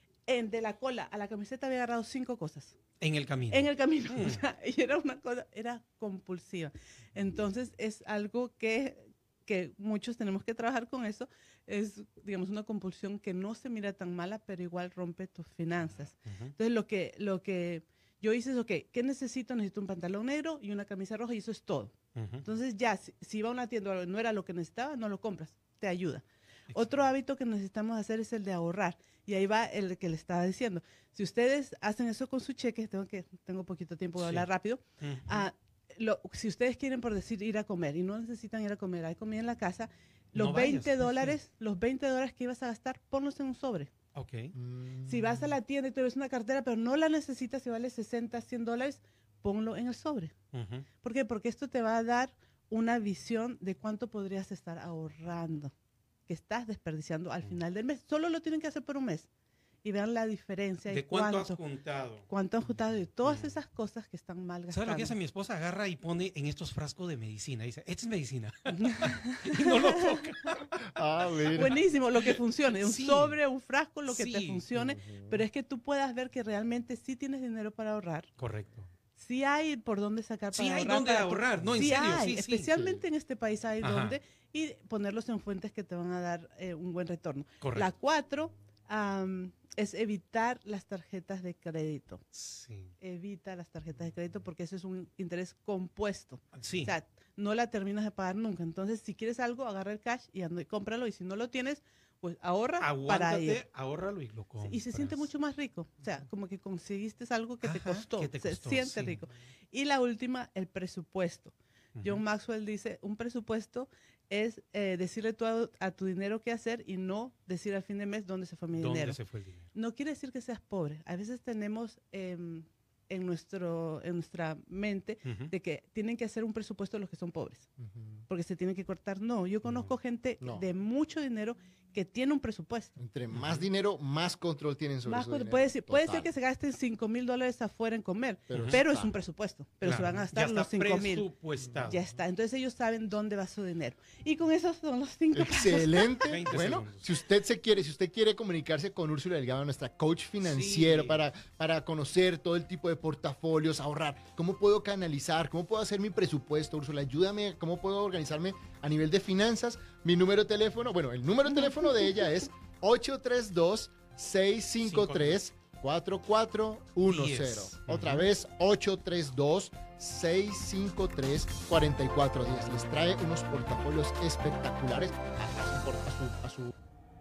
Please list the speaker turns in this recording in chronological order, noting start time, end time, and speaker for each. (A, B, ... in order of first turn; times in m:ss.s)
0:00.2-0:02.8 A
0:03.0-0:04.4 B
0:03.5-0:43.9 A
0:16.2-0:16.5 B
0:22.2-0:22.4 B
0:34.2-0:34.5 B
0:35.0-0:35.4 B
0:40.3-0:41.4 B
0:44.1-0:44.5 B
0:44.5-0:45.6 C
0:45.0-0:50.3 A
0:50.5-0:50.9 B
0:51.0-0:55.7 A
0:56.3-0:59.3 A
0:59.8-1:01.6 A
1:00.9-1:02.2 B
1:02.3-1:05.2 A
1:03.2-1:03.5 B
1:04.7-1:10.8 B
1:08.7-1:10.2 A
1:10.8-1:11.7 C
1:11.5-1:13.4 B
1:11.5-1:18.3 A
1:14.1-1:14.7 B
1:14.7-1:15.4 C
1:18.4-1:18.9 B
1:19.2-1:32.2 A
1:20.5-1:22.7 B
1:22.7-1:23.0 C
1:23.8-1:24.2 B
1:27.6-1:27.9 B
1:32.3-1:32.9 B
1:33.0-1:43.6 A
1:36.5-1:36.9 B
1:42.8-1:45.3 B
1:44.6-1:59.2 A
1:47.6-1:49.2 B
1:52.0-1:52.2 B
1:58.7-1:59.7 B
1:59.7-2:07.7 A
2:05.2-2:05.5 B
2:07.8-2:08.2 C
2:08.3-2:12.9 A
2:13.0-2:16.3 C
2:13.3-2:13.6 B
2:15.0-2:21.3 A
2:18.5-2:19.1 C
2:18.5-2:18.8 B
2:19.8-2:22.0 B
2:21.9-2:26.1 A
2:25.3-2:56.7 C
2:26.2-2:27.0 B
2:30.4-2:31.2 B
2:44.8-2:45.4 B
2:47.0-2:48.3 B